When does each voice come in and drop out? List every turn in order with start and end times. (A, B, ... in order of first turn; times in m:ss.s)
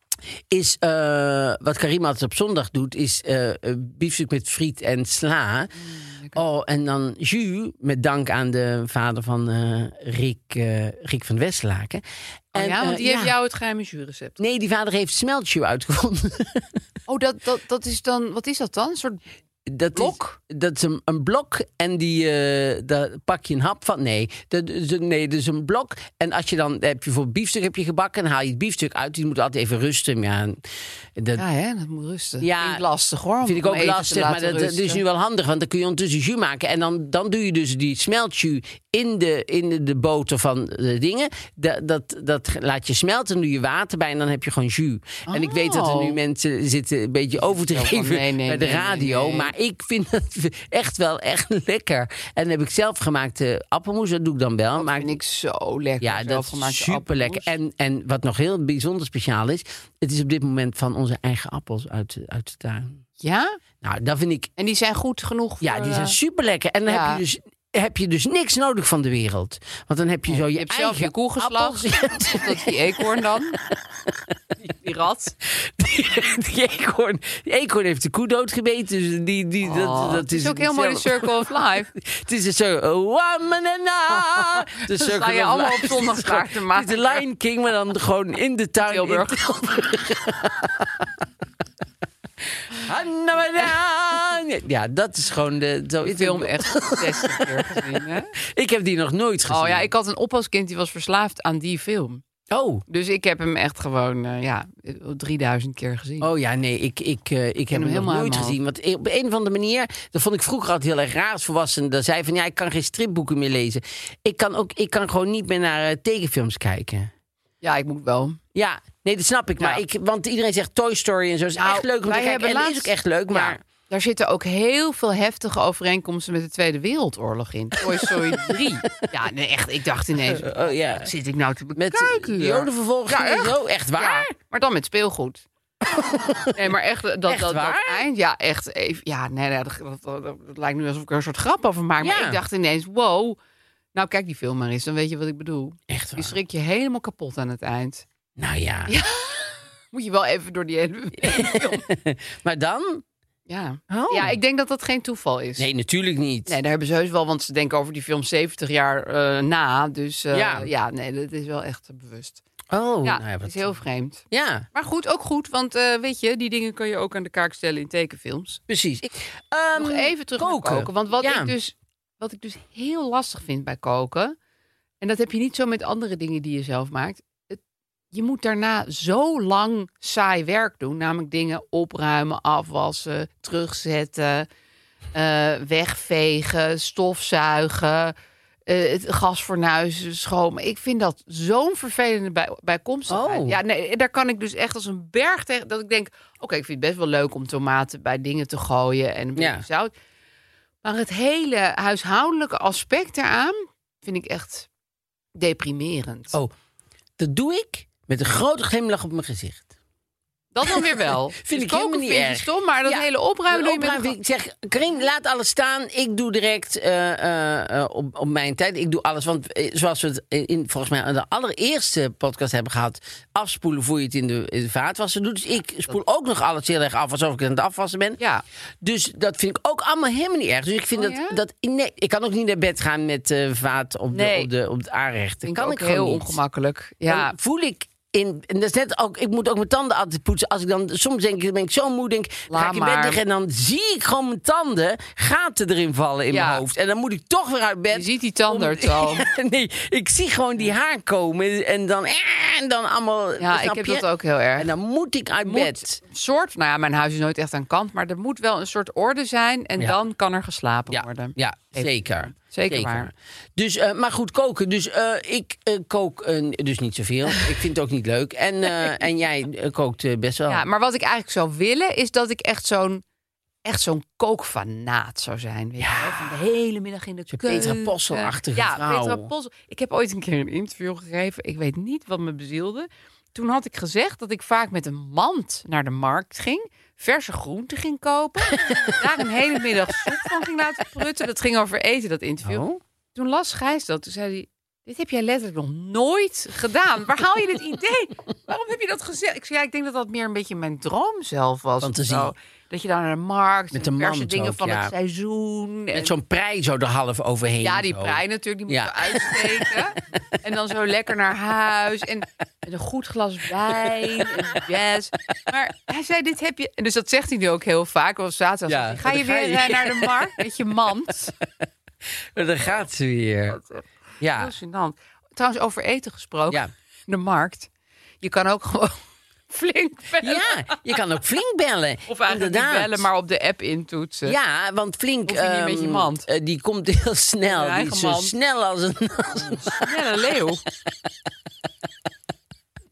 0:00.5-0:05.7 A
0:05.7-0:06.4 B
0:06.3-0:12.0 A
0:12.5-0:13.3 A
0:12.5-0:14.4 B
0:14.4-0:16.8 A
0:17.1-0:19.2 B
0:19.6-0:30.6 A
0:19.9-0:20.4 B
0:31.2-0:31.4 A
0:31.4-0:35.0 B
0:32.4-0:32.8 A
0:33.4-0:55.2 A
0:45.3-0:46.2 B
0:47.4-0:49.5 B
0:54.8-0:57.5 B
0:56.0-1:03.0 A
1:03.2-1:03.6 B
1:03.8-1:04.5 A
1:04.6-1:06.2 B
1:05.6-1:14.3 A
1:06.8-1:07.2 B
1:10.3-1:13.6 B
1:14.6-1:15.3 B
1:15.4-1:31.1 A
1:19.6-1:21.9 B
1:24.9-1:27.2 B
1:28.8-1:29.4 B
1:32.4-1:39.9 A
1:36.0-1:38.3 B
1:39.5-1:42.2 B
1:42.5-1:42.8 A
1:42.9-1:46.3 B
1:46.2-1:57.1 A
1:47.7-1:48.6 B
1:57.6-1:58.4 B
1:58.5-2:03.6 A
2:01.6-2:15.4 B
2:07.9-2:08.6 A
2:10.3-2:11.1 A
2:11.8-2:14.3 A
2:15.8-2:16.7 A
2:16.5-2:23.4 B
2:17.3-2:18.0 A
2:22.0-2:22.4 A
2:23.9-2:28.0 B
2:25.9-2:26.4 A
2:28.4-2:28.9 A
2:28.9-2:31.8 B
2:31.2-2:33.0 A
2:33.5-2:35.7 B
2:33.9-2:34.4 A
2:35.6-2:36.6 A
2:36.5-2:42.4 B
2:40.3-2:40.7 A
2:42.7-2:43.8 A
2:43.0-2:48.6 B
2:44.3-2:44.6 A
2:48.7-2:51.5 A
2:49.7-2:54.4 B
2:55.0-2:57.6 B
2:58.1-3:04.5 B
3:05.1-3:08.1 B
3:08.7-3:19.9 B
3:13.1-3:13.6 A
3:19.4-3:19.6 A
3:20.8-3:24.7 B
3:25.4-3:26.4 B
3:27.2-3:29.7 A
3:30.5-3:34.2 B
3:30.6-3:48.2 A
3:48.2-3:48.4 B
3:48.8-3:56.4 A
3:50.9-3:51.4 B
3:54.1-3:54.5 B
3:55.4-3:57.3 B
3:57.0-4:14.0 A
4:02.5-4:03.2 B
4:06.3-4:06.6 B
4:07.9-4:09.2 B
4:13.4-4:14.7 B
4:14.6-4:16.0 A
4:15.4-4:23.1 B
4:20.9-4:30.6 A
4:30.5-4:33.0 B
4:33.6-5:06.1 B
4:35.8-4:36.3 A
4:37.3-4:39.3 A
4:48.5-4:50.3 A
4:52.4-4:52.8 A
5:01.8-5:02.3 A
5:03.7-5:04.9 A
5:05.9-5:09.8 A
5:07.6-5:21.3 B
5:13.7-5:14.3 A
5:18.7-5:20.3 A
5:22.3-5:23.6 A
5:23.5-5:27.7 B
5:24.2-5:24.5 A
5:28.2-5:29.0 B
5:29.5-5:30.9 B
5:30.2-5:33.1 A
5:32.1-5:34.4 B
5:34.2-5:39.9 A
5:35.2-5:36.3 B
5:37.4-5:38.3 B
5:39.7-5:40.6 B